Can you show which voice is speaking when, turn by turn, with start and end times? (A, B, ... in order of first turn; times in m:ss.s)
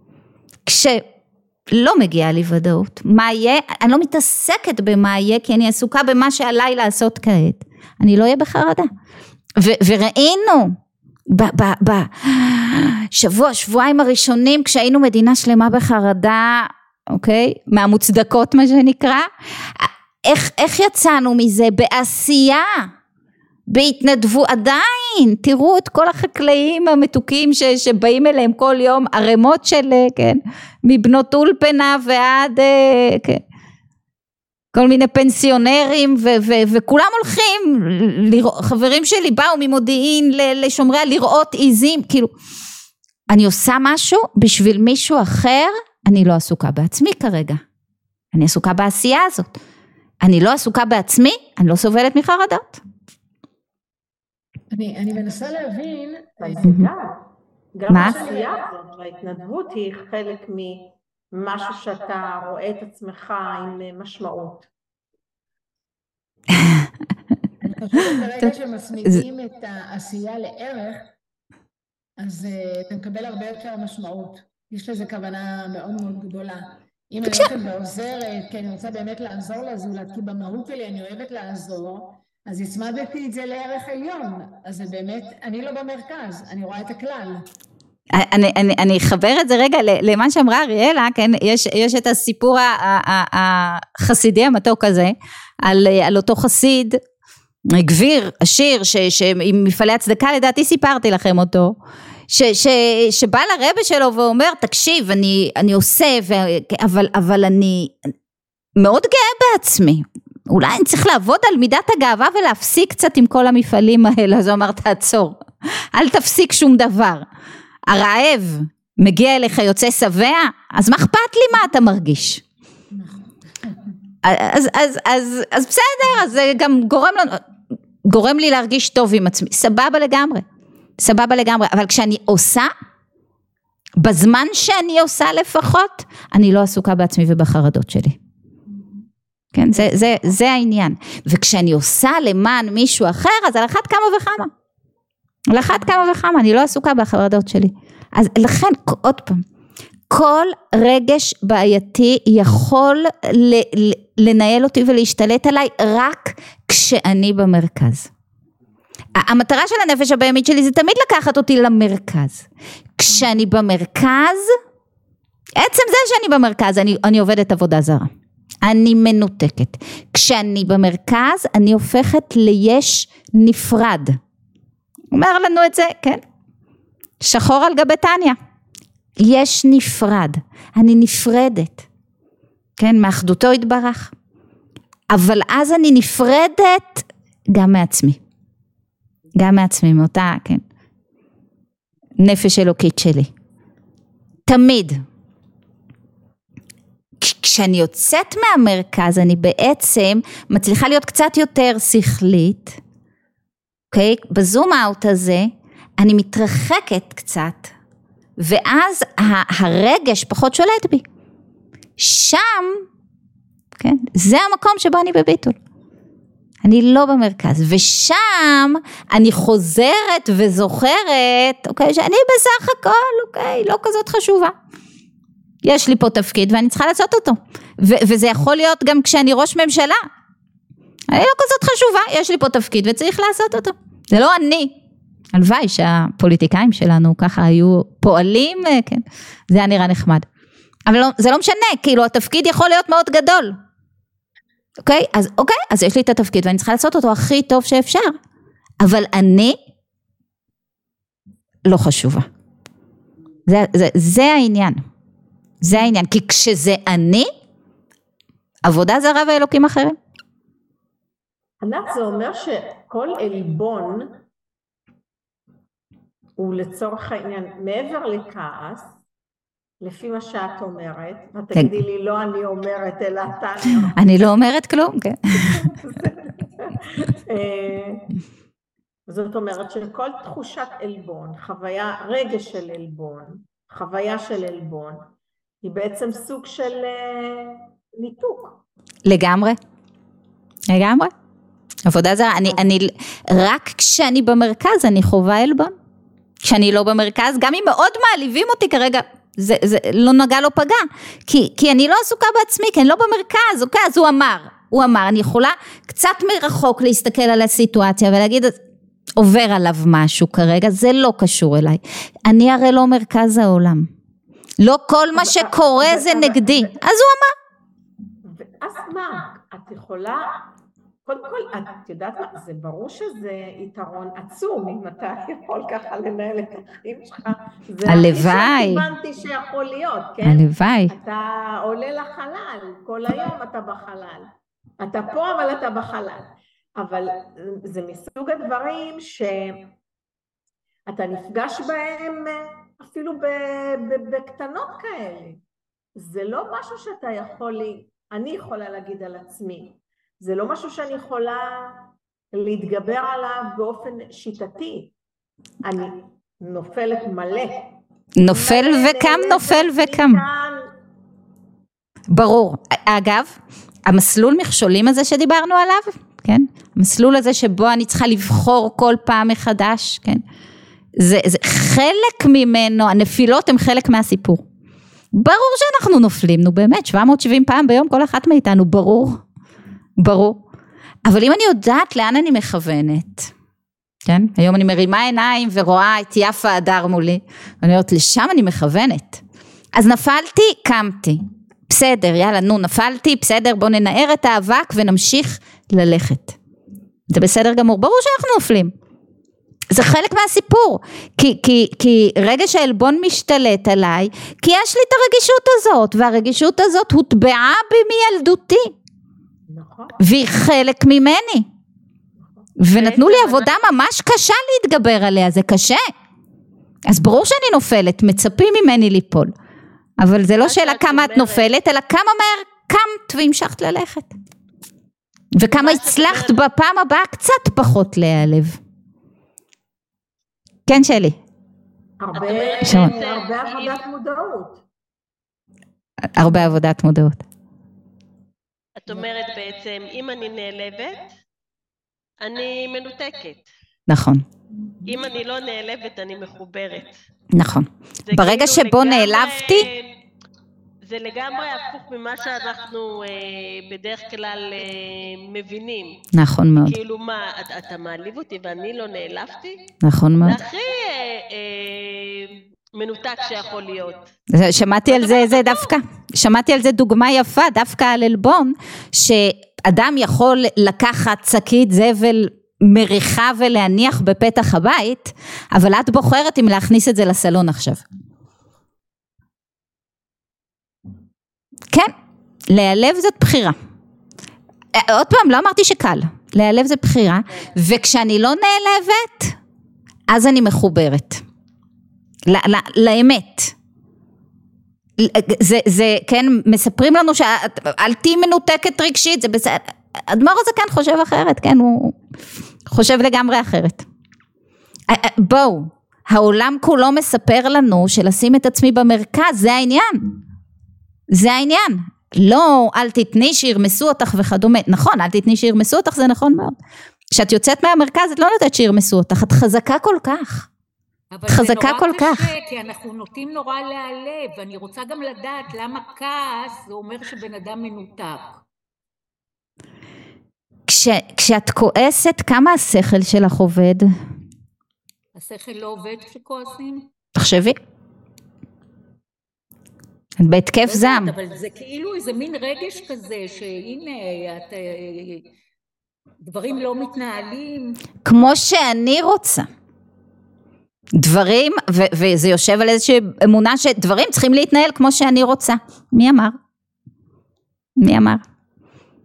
0:00.6-0:01.0 A
0:01.7-0:08.9 A
0:09.6-0:10.8 A
0:11.3-0:22.9 A
0:23.7-0:33.4 A
0:34.7-0:42.3 A
0:43.3-0:47.6 A
0:48.3-0:49.5 A
0:50.2-0:52.8 A
0:54.7-0:56.6 B
0:56.4-0:57.2 C
0:56.6-0:56.9 A
0:57.7-1:04.7 C
0:57.9-0:58.2 A
0:58.0-0:58.5 B
1:06.5-1:06.9 A
1:07.6-1:11.0 B
1:08.0-1:08.3 A
1:12.2-1:27.4 B
1:17.3-1:17.6 A
1:28.1-1:37.0 A
1:37.7-1:41.8 A
1:42.3-1:48.1 A
1:48.8-1:57.2 A
1:57.9-2:02.4 A
2:04.2-2:07.4 A
2:08.0-2:10.4 A
2:11.0-2:12.7 A
2:14.0-2:18.2 A
2:19.5-2:24.5 A
2:25.5-2:29.4 A
2:30.1-2:38.1 A
2:39.1-2:42.4 A
2:43.0-2:44.5 A
2:45.6-2:48.1 A
2:48.6-2:54.2 A
2:55.1-2:56.2 A
2:57.2-2:58.4 A
2:59.2-3:01.8 A
3:02.8-3:04.1 A
3:05.1-3:08.2 A
3:09.4-3:10.6 A
3:12.2-3:13.3 A
3:14.4-3:15.0 A
3:17.2-3:22.8 A
3:23.9-3:27.7 A
3:28.4-3:31.0 A
3:32.0-3:32.8 A
3:33.8-3:35.6 A
3:36.6-3:44.5 A
3:45.6-3:50.0 A
3:51.1-3:54.7 A
3:55.3-4:00.2 A
4:00.9-4:03.6 A
4:04.8-4:08.2 A
4:08.8-4:09.6 A
4:11.6-4:12.2 A
4:13.5-4:14.8 A
4:15.6-4:17.3 A
4:18.6-4:20.0 A
4:21.6-4:24.2 C
4:26.4-4:29.0 C
4:29.8-4:34.0 C
4:33.9-4:35.7 A
4:35.4-4:38.0 C
4:39.1-4:45.1 C
4:45.6-4:48.6 C
4:49.0-4:49.6 A
4:50.7-4:51.1 A
4:51.8-4:55.7 A
4:56.4-5:08.6 A
5:09.2-5:13.9 A
5:14.6-5:17.3 A
5:15.1-5:16.7 C
5:18.2-5:20.4 C
5:21.0-5:39.7 C
5:27.8-5:28.8 A
5:30.2-5:30.9 A
5:40.9-5:45.4 C
5:46.0-5:54.9 C
5:55.6-5:57.6 C
5:58.2-6:00.2 A
5:58.3-6:00.7 C
6:02.1-6:10.2 A
6:11.0-6:14.4 A
6:15.1-6:19.2 A
6:20.0-6:20.4 A
6:21.0-6:23.3 A
6:24.0-6:29.2 A
6:29.7-6:36.4 A
6:37.1-6:38.7 A
6:39.7-6:48.7 A
6:49.5-6:50.0 C
6:50.0-6:51.4 A
6:52.2-6:52.5 C
6:52.6-6:55.8 A
6:52.7-6:53.5 D
6:56.8-6:59.3 A
7:00.0-7:04.1 A
7:00.4-7:01.5 D
7:05.3-7:08.6 A
7:05.6-7:06.4 D
7:10.7-7:11.2 A
7:12.0-7:14.6 C
7:12.1-7:13.8 D
7:12.6-7:12.9 A
7:16.1-7:17.2 A
7:18.8-7:21.1 D
7:22.2-7:23.4 D
7:23.9-7:24.2 A
7:24.8-7:27.0 D
7:27.3-7:29.7 A
7:28.1-7:29.9 D
7:30.8-7:36.0 D
7:36.1-7:36.8 A
7:36.6-7:39.6 D
7:39.8-7:40.4 A
7:40.2-7:44.1 D
7:44.3-7:57.8 A
7:44.9-7:45.8 D
8:02.5-8:03.6 A
8:04.7-8:09.4 A
8:10.1-8:11.2 A
8:12.2-8:13.5 A
8:15.0-8:22.0 A
8:22.7-8:23.8 A
8:24.9-8:30.1 A
8:31.1-8:36.5 A
8:37.1-8:40.5 A
8:41.1-8:48.4 E
8:41.3-8:42.3 A
8:50.7-8:53.9 A
8:55.1-8:56.9 E
8:57.1-8:57.6 A
9:00.2-9:01.1 A
9:00.6-9:05.2 E
9:06.2-9:07.8 E
9:08.0-9:09.5 A
9:11.0-9:16.4 A
9:17.8-9:18.2 A